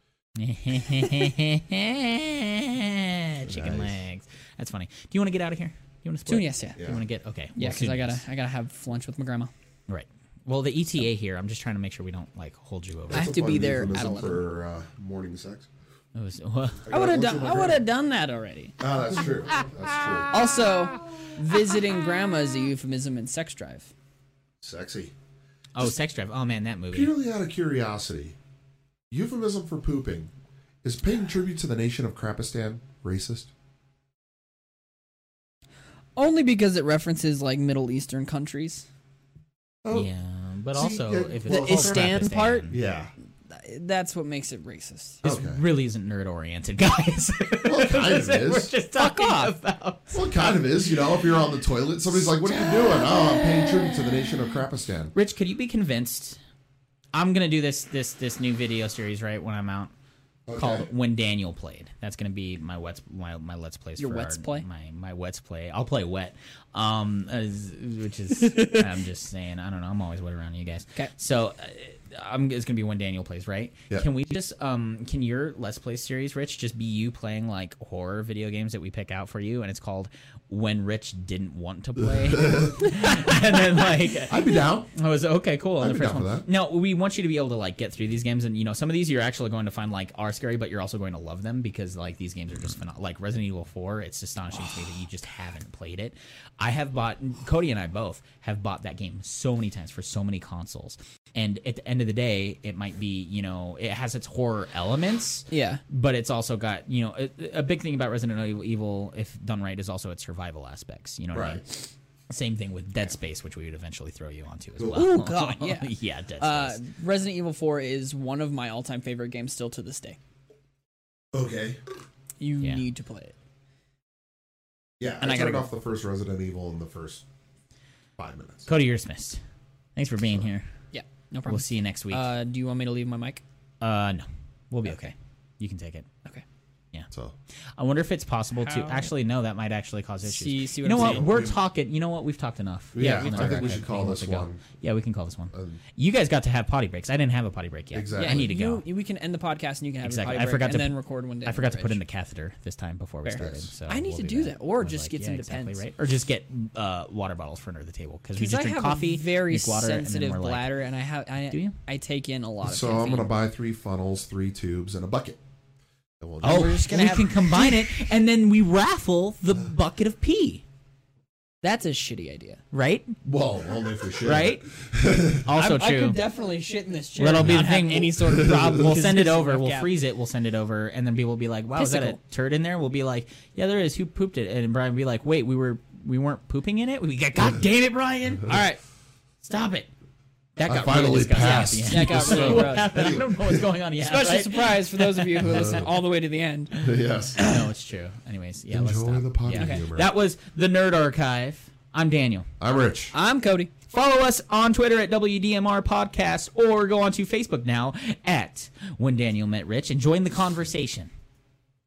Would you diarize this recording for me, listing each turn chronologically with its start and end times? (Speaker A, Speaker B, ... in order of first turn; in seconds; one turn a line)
Speaker A: 0.4-8.2
Speaker B: 3.5-4.0
Speaker C: 6.3-7.0
Speaker B: 6.8-7.0
Speaker C: 7.6-9.5
Speaker A: 9.9-13.5
Speaker B: 13.1-15.7
Speaker C: 13.1-14.4
Speaker A: 16.1-16.9
Speaker B: 16.9-17.8
Speaker C: 16.9-18.8
Speaker B: 18.8-20.3
Speaker C: 20.3-23.9
Speaker B: 24.6-25.1
Speaker A: 25.8-27.1
Speaker B: 26.9-28.4
Speaker B: 29.1-30.3
Speaker B: 30.8-33.5
Speaker C: 36.2-38.9
Speaker B: 39.8-40.1
Speaker A: 39.9-42.8
Speaker B: 40.7-43.1
Speaker C: 41.5-42.7
Speaker C: 43.5-45.2
Speaker B: 45.2-45.6
Speaker A: 45.2-50.2
Speaker B: 47.6-48.7
Speaker C: 49.0-49.5
Speaker B: 50.1-55.1
Speaker A: 55.1-56.4
Speaker A: 57.1-59.9
Speaker B: 60.5-60.9
Speaker A: 60.5-116.8
Speaker C: 64.0-64.7
Speaker B: 82.0-83.0
Speaker B: 84.3-84.9
Speaker B: 85.8-86.5
Speaker C: 105.5-105.8
Speaker B: 111.3-111.6
Speaker C: 114.9-120.2
Speaker B: 121.3-121.8
Speaker C: 122.4-123.3
Speaker A: 122.6-122.8
Speaker B: 125.0-127.2
Speaker C: 125.2-125.7
Speaker B: 128.2-128.7
Speaker A: 128.7-129.4
Speaker A: 130.0-130.7
Speaker C: 130.9-133.4
Speaker A: 131.5-132.3
Speaker A: 133.8-136.1
Speaker C: 134.8-135.1
Speaker A: 137.8-148.8
Speaker C: 138.6-139.1
Speaker C: 140.2-141.3
Speaker B: 140.9-141.6
Speaker B: 142.9-144.6
Speaker C: 143.0-143.7
Speaker B: 145.5-145.8
Speaker B: 147.9-148.5
Speaker C: 148.2-152.0
Speaker A: 150.0-160.7
Speaker C: 153.2-155.9
Speaker B: 153.4-153.7
Speaker C: 158.4-163.3
Speaker A: 161.5-161.8
Speaker B: 162.6-165.4
Speaker B: 166.2-167.0
Speaker C: 166.4-167.9
Speaker A: 166.4-170.6
Speaker C: 171.6-172.6
Speaker A: 172.7-173.2
Speaker B: 173.2-175.5
Speaker A: 174.2-174.7
Speaker A: 175.3-176.2
Speaker C: 175.5-179.9
Speaker A: 177.2-188.7
Speaker B: 178.3-178.8
Speaker C: 181.8-182.2
Speaker C: 188.5-188.8
Speaker A: 189.4-189.9
Speaker A: 190.6-195.8
Speaker B: 190.7-193.7
Speaker C: 191.4-193.2
Speaker C: 194.0-196.7
Speaker B: 195.4-195.8
Speaker B: 196.8-197.6
Speaker A: 197.4-202.5
Speaker B: 198.7-200.1
Speaker C: 199.5-199.8
Speaker B: 202.6-203.2
Speaker C: 203.1-203.7
Speaker A: 203.9-211.1